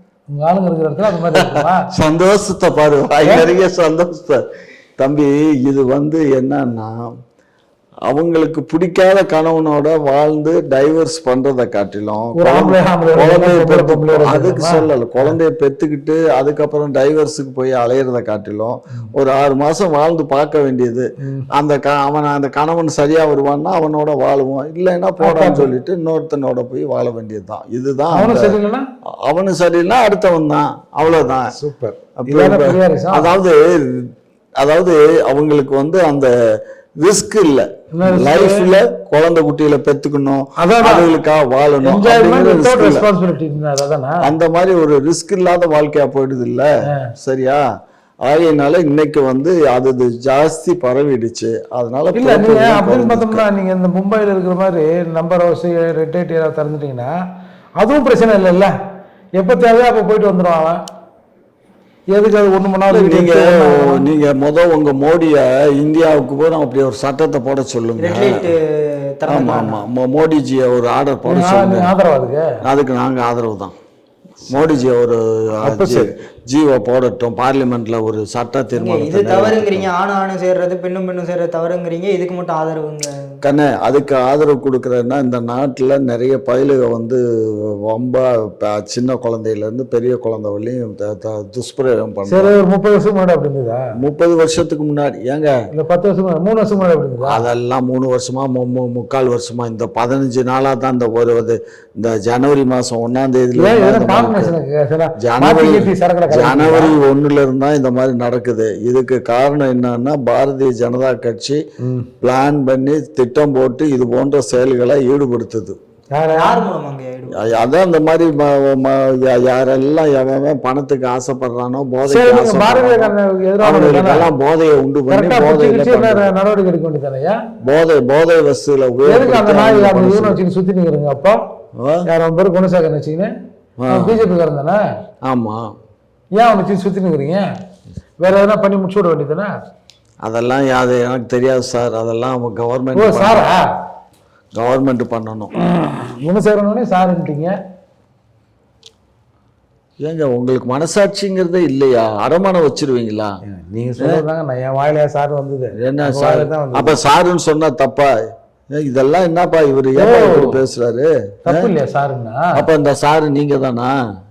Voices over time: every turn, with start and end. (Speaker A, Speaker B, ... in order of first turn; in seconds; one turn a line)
Speaker A: 0.3-1.9
Speaker B: 1.3-4.4
Speaker B: 5.0-7.1
Speaker B: 8.1-28.6
Speaker A: 12.4-15.3
Speaker A: 21.2-21.5
Speaker A: 25.2-25.7
Speaker A: 28.1-28.9
Speaker B: 29.2-31.5
Speaker A: 31.5-33.3
Speaker B: 32.2-36.3
Speaker B: 37.0-43.1
Speaker A: 37.9-38.7
Speaker A: 40.6-41.1
Speaker A: 41.8-44.3
Speaker B: 44.2-47.6
Speaker B: 48.2-53.4
Speaker A: 52.1-57.1
Speaker A: 57.8-58.7
Speaker A: 59.4-60.8
Speaker A: 62.1-64.1
Speaker B: 62.9-68.5
Speaker C: 68.0-69.8
Speaker B: 69.3-71.9
Speaker A: 71.2-72.5
Speaker B: 72.6-73.8
Speaker B: 74.5-79.9
Speaker A: 75.6-76.1
Speaker C: 78.8-83.4
Speaker B: 83.4-92.5
Speaker A: 92.3-93.8
Speaker B: 94.0-95.5
Speaker A: 95.7-97.4
Speaker B: 97.2-104.5
Speaker A: 103.5-107.0
Speaker B: 105.2-111.6
Speaker A: 111.8-112.1
Speaker B: 112.2-115.8
Speaker A: 116.2-116.7
Speaker C: 116.3-117.6
Speaker B: 117.3-126.3
Speaker A: 122.0-124.3
Speaker A: 125.1-127.4
Speaker B: 127.6-130.4
Speaker A: 129.1-131.4
Speaker B: 131.8-132.1
Speaker A: 132.1-133.3
Speaker B: 133.8-134.2
Speaker A: 133.9-134.8
Speaker B: 135.2-135.7
Speaker A: 136.4-137.5
Speaker A: 138.2-139.5
Speaker B: 140.2-143.5
Speaker A: 142.9-143.7
Speaker B: 144.5-145.5
Speaker A: 145.6-147.6
Speaker B: 150.0-153.3
Speaker A: 153.4-157.0
Speaker B: 154.0-154.2
Speaker B: 155.8-158.1
Speaker B: 158.7-161.7
Speaker A: 160.0-160.6
Speaker A: 161.5-162.7
Speaker B: 162.5-163.9